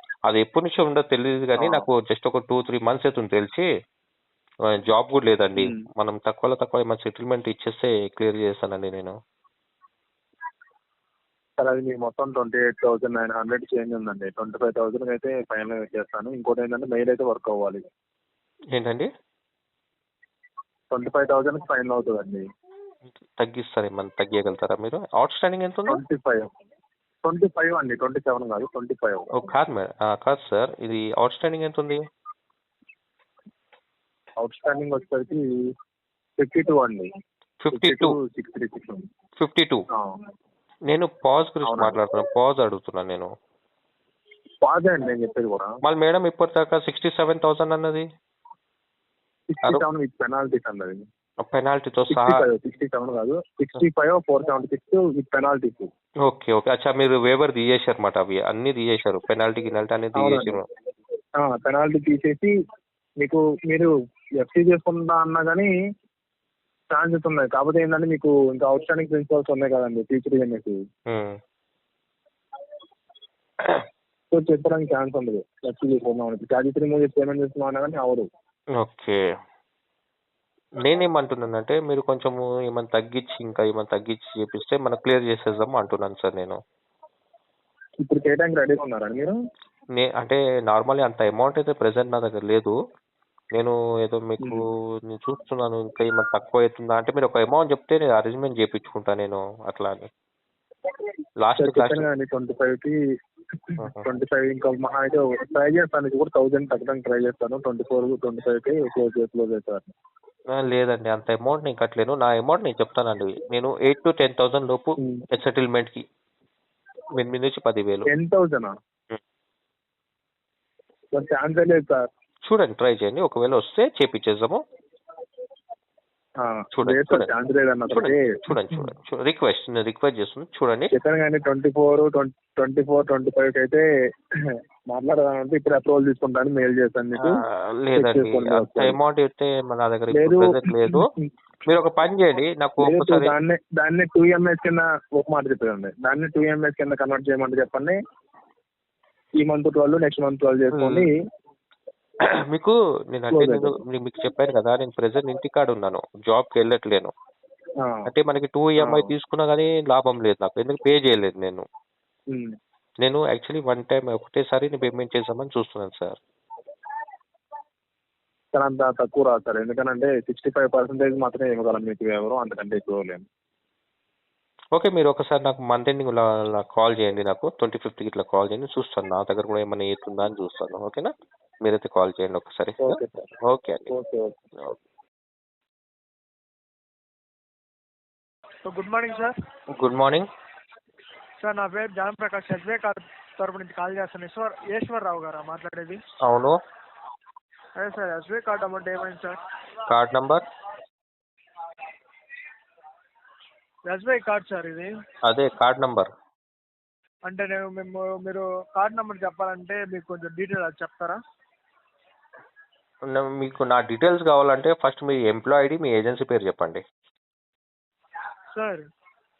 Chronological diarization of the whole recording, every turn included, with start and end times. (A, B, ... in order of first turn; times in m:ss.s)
0:00.3-0:03.7 A
0:01.6-0:01.8 B
0:04.7-0:09.2 A
0:11.6-0:17.8 B
0:18.7-0:19.1 A
0:20.9-0:22.4 B
0:23.4-0:26.0 A
0:25.9-0:26.5 B
0:27.2-0:29.3 B
0:29.3-0:32.0 A
0:34.4-0:35.5 B
0:36.4-0:37.1 B
0:37.6-0:38.2 A
0:37.7-0:39.0 B
0:39.4-0:39.8 A
0:39.9-0:40.2 B
0:40.9-0:43.3 A
0:41.7-0:42.0 B
0:44.6-0:45.7 B
0:45.8-0:48.1 A
0:49.5-0:51.0 B
0:51.4-0:52.4 A
0:52.1-0:55.9 B
0:56.2-1:00.7 A
1:00.2-1:00.6 B
1:01.4-1:02.5 B
1:03.2-1:05.7 B
1:06.9-1:10.8 B
1:11.1-1:11.4 A
1:14.3-1:18.3 B
1:18.8-1:19.2 A
1:20.8-1:26.6 A
1:28.0-1:29.3 B
1:30.0-1:32.8 A
1:33.5-1:40.1 A
1:41.4-1:42.1 A
1:41.6-1:43.0 B
1:43.6-1:49.9 B
1:50.5-1:56.0 A
1:57.1-1:58.1 A
1:58.1-1:58.7 B
2:01.1-2:02.1 B
2:02.4-2:04.6 A
2:06.4-2:08.9 B
2:06.7-2:07.3 A
2:07.9-2:10.9 A
2:10.9-2:13.8 B
2:14.9-2:17.4 B
2:17.2-2:21.1 A
2:18.0-2:19.0 B
2:20.1-2:21.3 B
2:21.7-2:23.3 A
2:22.8-2:28.0 B
2:29.4-2:31.2 B
2:30.7-2:31.1 A
2:32.3-2:37.1 A
2:33.3-2:33.7 B
2:37.8-2:38.1 B
2:38.1-2:41.6 A
2:38.8-2:39.1 B
2:42.3-2:42.5 B
2:43.0-2:46.2 A
2:48.5-2:53.2 B
2:54.8-3:03.9 A
3:02.8-3:03.3 B
3:03.9-3:04.3 B
3:08.7-3:09.3 C
3:09.8-3:10.3 A
3:11.4-3:16.0 C
3:16.2-3:16.6 A
3:17.8-3:19.4 C
3:19.9-3:20.4 A
3:23.9-3:24.9 C
3:25.2-3:26.1 A
3:27.3-3:31.2 C
3:33.1-3:36.8 A
3:38.5-3:38.8 C